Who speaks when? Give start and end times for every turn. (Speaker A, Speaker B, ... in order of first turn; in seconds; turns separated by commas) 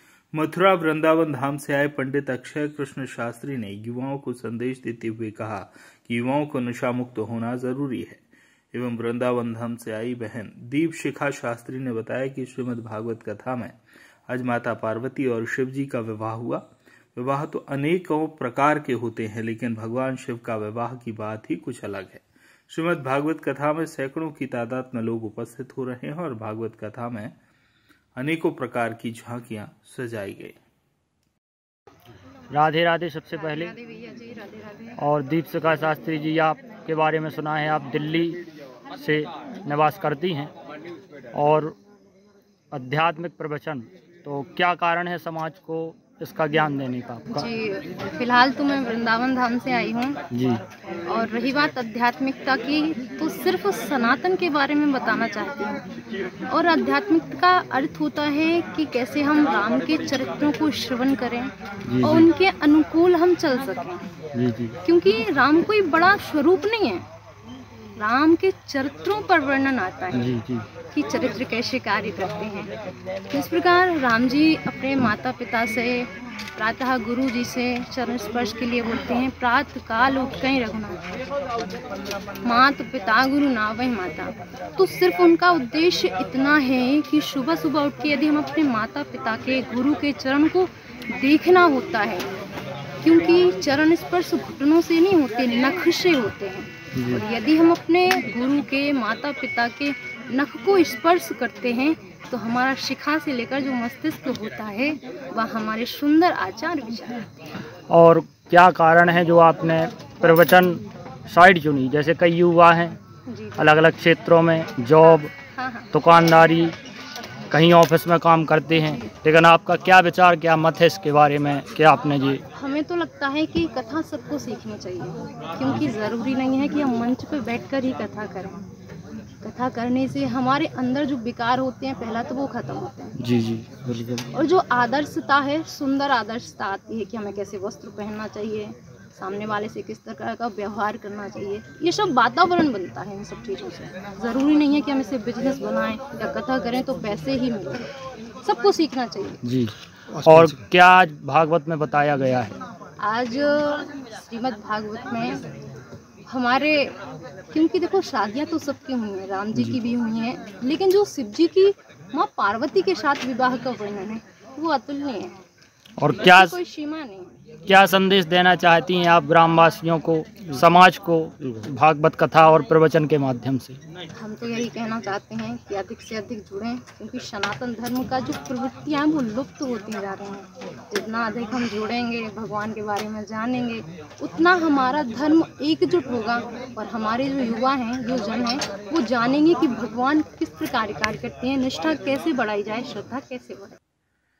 Speaker A: 0.3-13.7, Speaker A: 14.3-16.6, Speaker A: 17.1-27.3, Speaker A: 28.2-30.5, Speaker B: 32.5-33.7, Speaker C: 33.3-35.0, Speaker B: 35.0-38.4, Speaker B: 39.0-40.5, Speaker B: 41.3-41.7, Speaker B: 42.7-47.5, Speaker C: 47.3-50.2, Speaker B: 50.3-50.6, Speaker C: 51.1-55.8, Speaker C: 56.5-64.0, Speaker B: 61.9-62.3, Speaker B: 64.3-64.8, Speaker C: 64.8-67.0, Speaker C: 68.0-70.2, Speaker B: 70.1-70.7, Speaker C: 70.9-72.7, Speaker C: 73.3-81.0, Speaker C: 82.4-92.3, Speaker C: 93.0-107.2, Speaker B: 97.0-97.2, Speaker B: 107.9-113.0, Speaker C: 113.3-113.7, Speaker B: 113.6-115.3, Speaker C: 115.5-115.9, Speaker B: 115.9-116.7, Speaker B: 117.5-122.4, Speaker C: 122.5-128.6, Speaker B: 125.7-125.9, Speaker C: 129.4-133.1, Speaker B: 133.2-134.3, Speaker C: 134.3-147.8, Speaker C: 148.4-149.4, Speaker B: 149.4-152.5, Speaker C: 153.0-155.4, Speaker C: 156.3-156.9, Speaker C: 157.5-165.3, Speaker B: 166.0-166.6, Speaker C: 166.1-167.3, Speaker B: 167.7-173.8, Speaker C: 174.1-193.8